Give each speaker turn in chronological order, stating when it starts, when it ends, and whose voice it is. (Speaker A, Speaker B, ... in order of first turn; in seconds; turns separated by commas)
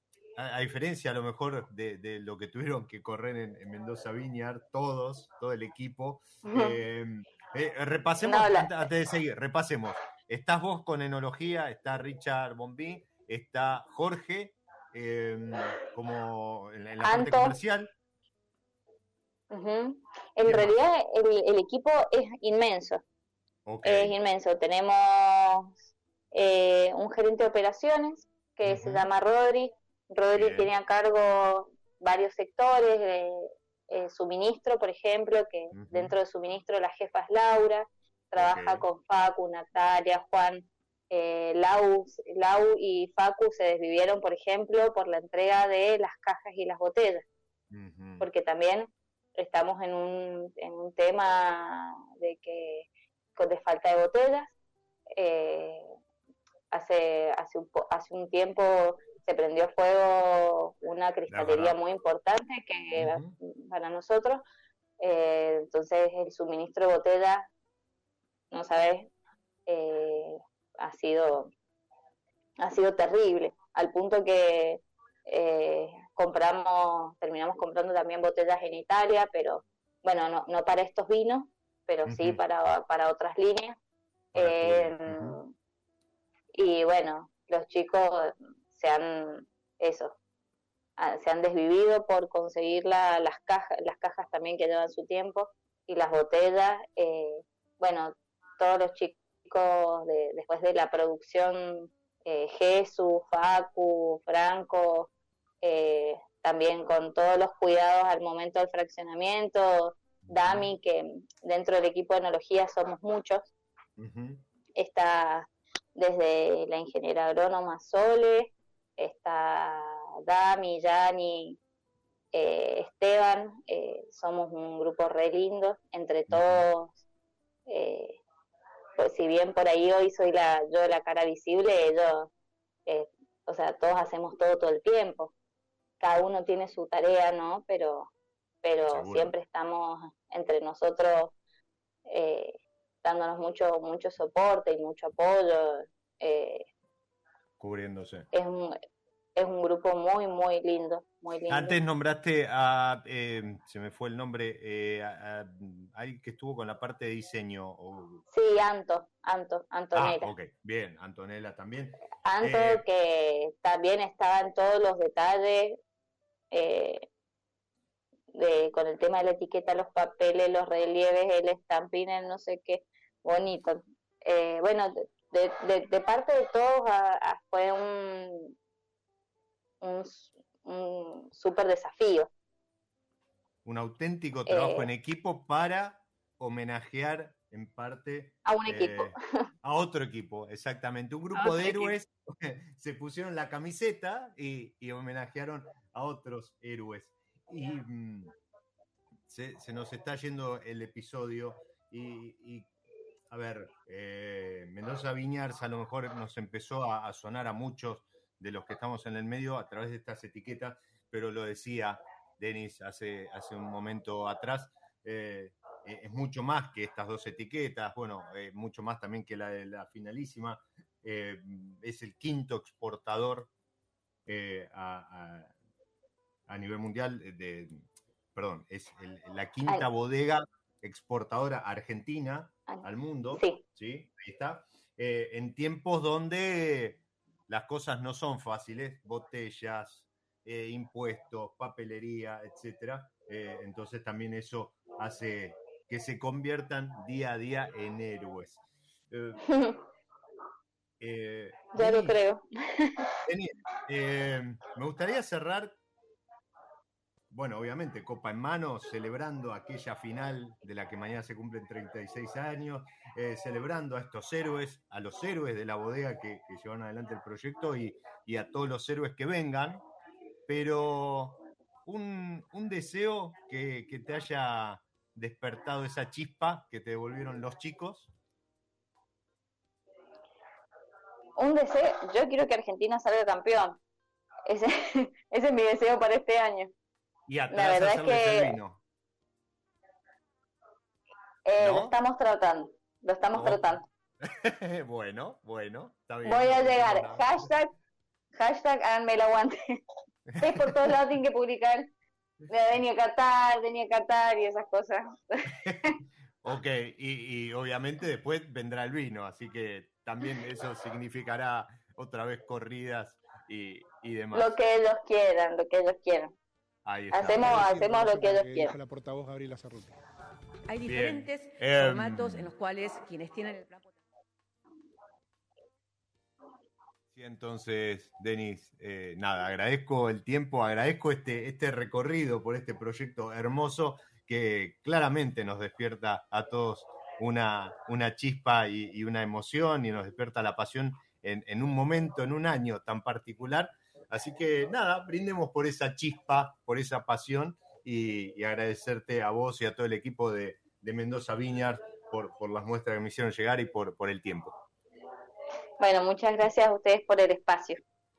Speaker A: 0.3-17.9, Speaker B: 6.4-6.8, Speaker B: 8.2-8.7, Speaker B: 17.0-17.6, Speaker B: 19.5-23.0, Speaker A: 20.4-20.8, Speaker A: 23.6-24.1, Speaker B: 23.8-25.8, Speaker B: 26.3-47.2, Speaker A: 28.6-29.1, Speaker A: 30.3-30.7, Speaker A: 35.7-36.1, Speaker A: 38.3-38.9, Speaker A: 47.7-48.3, Speaker B: 48.2-54.5, Speaker B: 55.1-55.9, Speaker B: 56.7-64.4, Speaker A: 61.3-61.8, Speaker A: 63.0-63.4, Speaker B: 65.0-67.5, Speaker B: 68.5-69.1, Speaker B: 69.7-71.5, Speaker B: 72.6-83.8, Speaker A: 82.1-82.4, Speaker A: 84.3-85.4, Speaker B: 84.3-85.5, Speaker B: 86.5-90.2, Speaker B: 91.0-105.1, Speaker B: 105.6-113.5, Speaker A: 110.2-110.7, Speaker A: 114.0-114.4, Speaker B: 114.8-121.6, Speaker B: 122.3-127.0, Speaker A: 126.3-126.6, Speaker B: 127.7-128.2, Speaker B: 129.0-132.3, Speaker B: 132.8-135.3, Speaker B: 136.0-138.1, Speaker B: 138.6-141.3, Speaker A: 138.9-139.3, Speaker B: 142.1-146.7, Speaker A: 147.6-148.3, Speaker B: 148.3-148.8, Speaker B: 149.3-151.8, Speaker A: 151.5-158.2, Speaker B: 158.3-160.3, Speaker A: 159.9-162.8, Speaker B: 162.2-165.8, Speaker B: 166.5-167.1, Speaker B: 168.3-178.5, Speaker B: 179.8-182.3, Speaker A: 183.6-198.3, Speaker B: 184.5-184.9, Speaker B: 188.4-189.5, Speaker B: 191.3-191.9, Speaker A: 199.3-202.7, Speaker A: 203.3-223.5, Speaker A: 224.2-225.5, Speaker A: 226.5-249.4, Speaker B: 232.7-233.6, Speaker B: 249.4-249.8, Speaker A: 251.0-252.2, Speaker B: 251.7-253.1, Speaker A: 253.2-255.8, Speaker A: 257.3-269.9, Speaker A: 270.5-278.1, Speaker B: 281.4-283.8, Speaker B: 284.4-286.7, Speaker A: 287.3-288.8, Speaker B: 287.5-288.6, Speaker B: 291.4-293.8, Speaker A: 291.6-291.9, Speaker A: 293.3-297.3, Speaker B: 296.2-297.7, Speaker B: 298.3-299.8, Speaker B: 300.4-301.9, Speaker A: 300.4-300.8, Speaker B: 302.5-305.9, Speaker A: 306.4-314.6, Speaker B: 314.3-316.3, Speaker A: 316.8-317.8, Speaker B: 317.1-318.7, Speaker C: 317.3-320.0, Speaker D: 320.7-324.0, Speaker A: 320.8-322.5, Speaker A: 327.1-354.6, Speaker B: 355.8-357.8